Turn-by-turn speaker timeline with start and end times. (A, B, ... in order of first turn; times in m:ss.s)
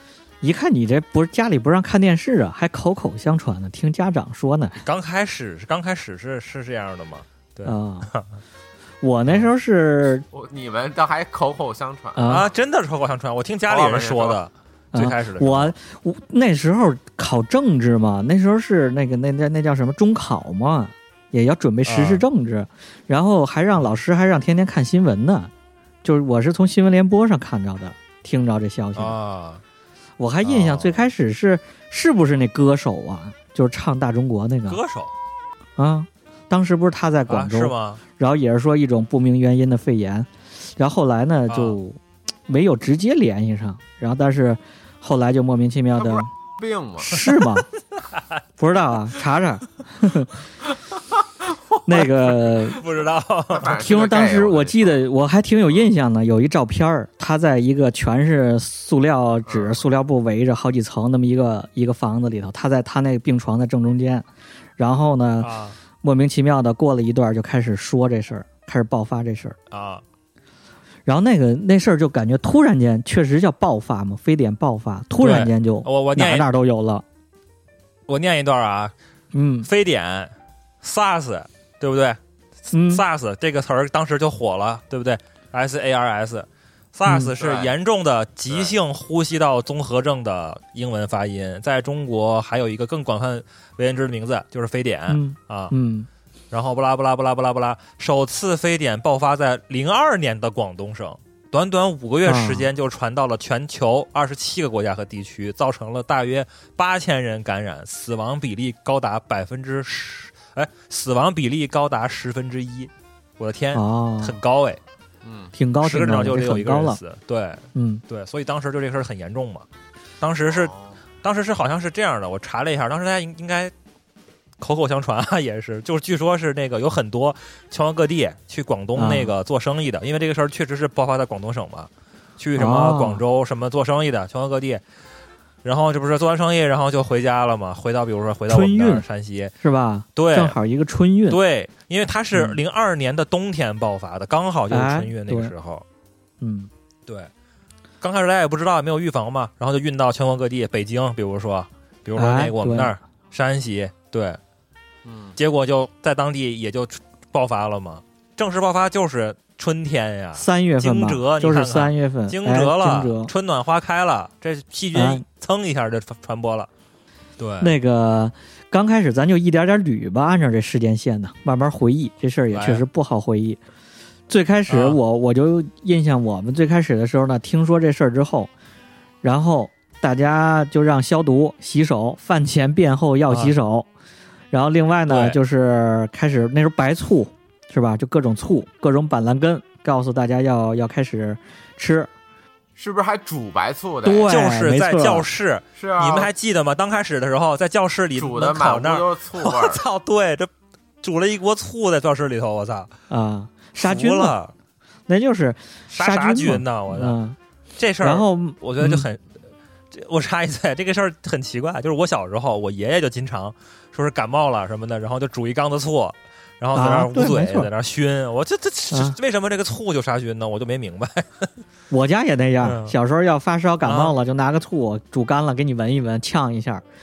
0:00.4-0:04.8 A
0:04.8-0:08.4 B
0:07.6-0:08.1 A
0:09.0-0:10.2 A
0:10.3-0:12.5 C
0:12.2-0:12.4 A
0:12.2-0:15.7 B
0:13.7-0:14.4 C
0:14.9-0:25.5 A
0:21.8-0:22.2 B
0:26.0-0:29.2 A
0:29.0-0:29.6 B
0:30.2-0:34.8 A
0:30.4-0:31.0 B
0:34.7-0:35.1 B
0:35.8-0:46.3 A
0:37.3-0:38.0 B
0:41.5-0:41.8 B
0:46.0-0:47.2 C
0:47.0-0:47.7 A
0:48.0-0:48.4 B
0:48.6-0:50.4 A
0:51.8-0:52.8 A
0:52.0-0:53.8 B
0:53.5-0:55.0 C
0:53.8-1:04.2 A
0:59.5-0:59.8 C
1:04.8-1:09.6 A
1:05.4-1:05.8 B
1:09.7-1:10.0 B
1:11.0-1:17.0 A
1:15.2-1:16.5 B
1:18.1-1:18.9 B
1:19.3-1:19.7 A
1:19.6-1:22.2 B
1:22.7-1:23.0 A
1:22.9-1:35.7 B
1:27.1-1:27.3 A
1:27.4-1:27.7 C
1:35.1-1:36.1 A
1:36.5-1:54.8 B
1:42.2-1:42.7 A
1:53.7-1:54.4 A
1:55.2-1:55.5 C
1:55.5-1:57.0 A
1:55.8-1:59.6 B
1:57.7-1:58.0 A
2:00.2-2:03.7 B
2:00.5-2:01.0 C
2:04.6-2:14.8 B
2:09.0-2:09.3 A
2:12.6-2:13.2 A
2:15.6-2:19.5 B
2:18.5-2:19.0 A
2:19.6-2:21.4 A
2:20.2-2:20.6 B
2:21.3-2:25.8 B
2:22.3-2:22.6 A
2:24.7-2:25.5 A
2:26.4-2:26.7 A
2:28.0-2:34.4 B
2:32.2-2:32.9 A
2:35.0-2:35.3 C
2:35.4-2:46.7 B
2:40.3-2:43.3 A
2:44.9-2:45.2 A
2:47.4-2:47.7 B
2:47.6-2:53.6 A
2:52.5-2:52.8 B
2:54.3-2:58.5 A
2:54.7-2:55.0 B
2:59.2-3:03.9 A
3:03.3-3:03.5 B
3:04.5-3:12.1 A
3:05.1-3:05.4 B
3:12.8-3:14.3 C
3:14.0-3:15.2 A
3:14.2-3:20.5 B
3:15.8-3:16.3 C
3:18.2-3:19.8 C
3:21.0-3:22.9 B
3:23.1-3:24.4 A
3:23.8-3:24.5 B
3:25.1-3:27.4 A
3:25.9-3:27.2 B
3:27.8-3:29.4 B
3:28.0-3:29.0 A
3:29.9-3:41.5 B
3:36.7-3:37.7 A
3:38.9-3:39.2 A
3:41.9-3:46.8 A
3:42.6-3:42.9 B
3:43.8-3:44.1 B